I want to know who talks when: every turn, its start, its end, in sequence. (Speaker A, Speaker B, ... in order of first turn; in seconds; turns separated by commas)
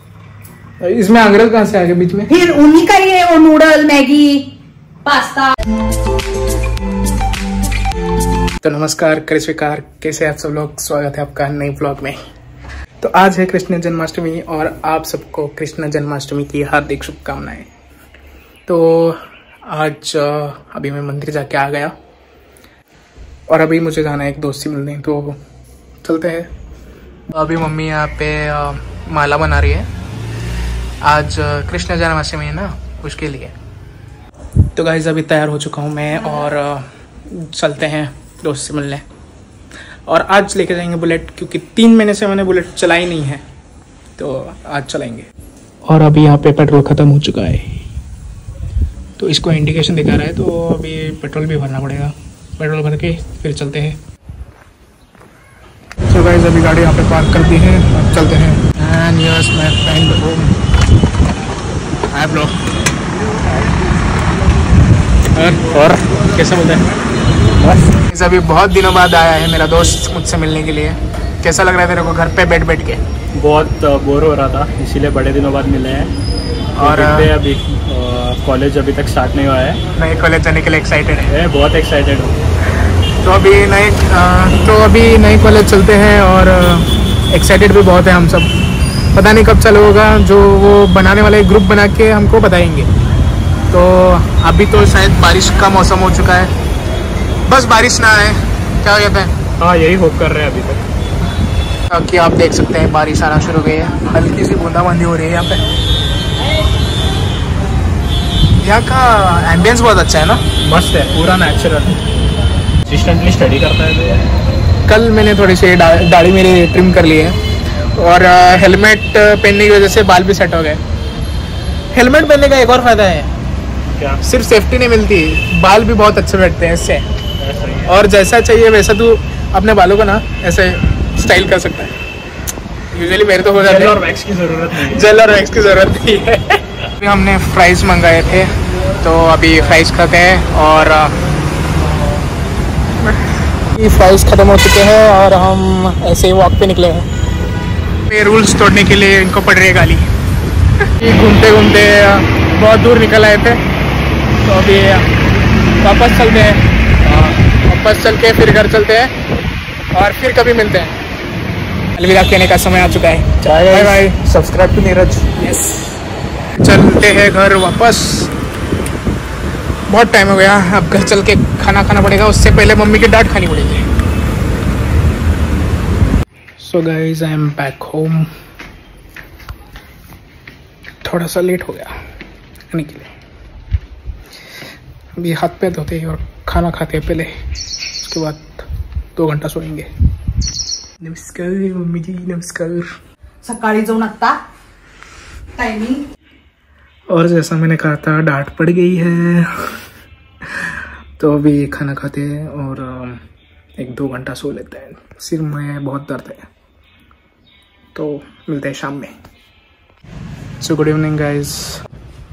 Speaker A: 0.8-2.3, Speaker B: 2.3-4.5, Speaker B: 5.0-5.5, Speaker A: 8.6-12.2, Speaker A: 13.0-17.7, Speaker A: 18.7-21.9, Speaker A: 23.5-25.4, Speaker A: 26.0-26.5, Speaker A: 27.3-29.9, Speaker A: 31.0-33.5, Speaker A: 34.8-39.1, Speaker A: 40.1-43.4, Speaker A: 44.2-45.3, Speaker A: 45.9-47.8, Speaker A: 49.2-54.0, Speaker A: 56.1-60.6, Speaker A: 62.1-62.5, Speaker A: 65.3-66.8, Speaker C: 67.6-68.0, Speaker A: 68.1-73.0, Speaker C: 73.3-76.1, Speaker C: 76.8-79.8, Speaker A: 76.8-77.3, Speaker A: 80.0-81.3, Speaker C: 81.3-82.4, Speaker A: 82.9-88.5, Speaker A: 89.1-92.9, Speaker A: 93.7-96.5, Speaker A: 97.5-99.3, Speaker C: 99.6-100.8, Speaker A: 101.9-105.6, Speaker A: 108.6-110.5, Speaker C: 110.6-112.0, Speaker C: 112.9-114.3, Speaker A: 114.9-117.4, Speaker A: 118.0-120.8, Speaker A: 121.9-123.3, Speaker C: 123.9-124.2, Speaker A: 124.2-127.1, Speaker C: 127.4-127.9, Speaker A: 127.9-131.9, Speaker A: 132.9-134.0, Speaker C: 133.6-135.1, Speaker A: 134.8-141.2, Speaker A: 143.7-147.1, Speaker A: 148.1-150.1, Speaker A: 151.0-153.6, Speaker A: 154.4-155.1, Speaker A: 155.8-156.6, Speaker C: 157.1-157.4, Speaker A: 157.4-159.1, Speaker A: 159.9-161.0, Speaker A: 161.9-164.3, Speaker C: 163.4-165.3, Speaker A: 165.3-165.9, Speaker A: 166.6-168.3, Speaker A: 169.9-173.9, Speaker A: 176.6-178.3, Speaker A: 181.0-182.0, Speaker A: 182.7-183.1, Speaker A: 185.2-187.3, Speaker A: 187.9-189.9, Speaker A: 191.0-192.9, Speaker B: 193.4-194.4, Speaker B: 195.6-196.0, Speaker A: 197.1-199.5, Speaker A: 200.5-203.2, Speaker A: 203.8-206.4, Speaker A: 207.9-209.1, Speaker A: 210.6-211.8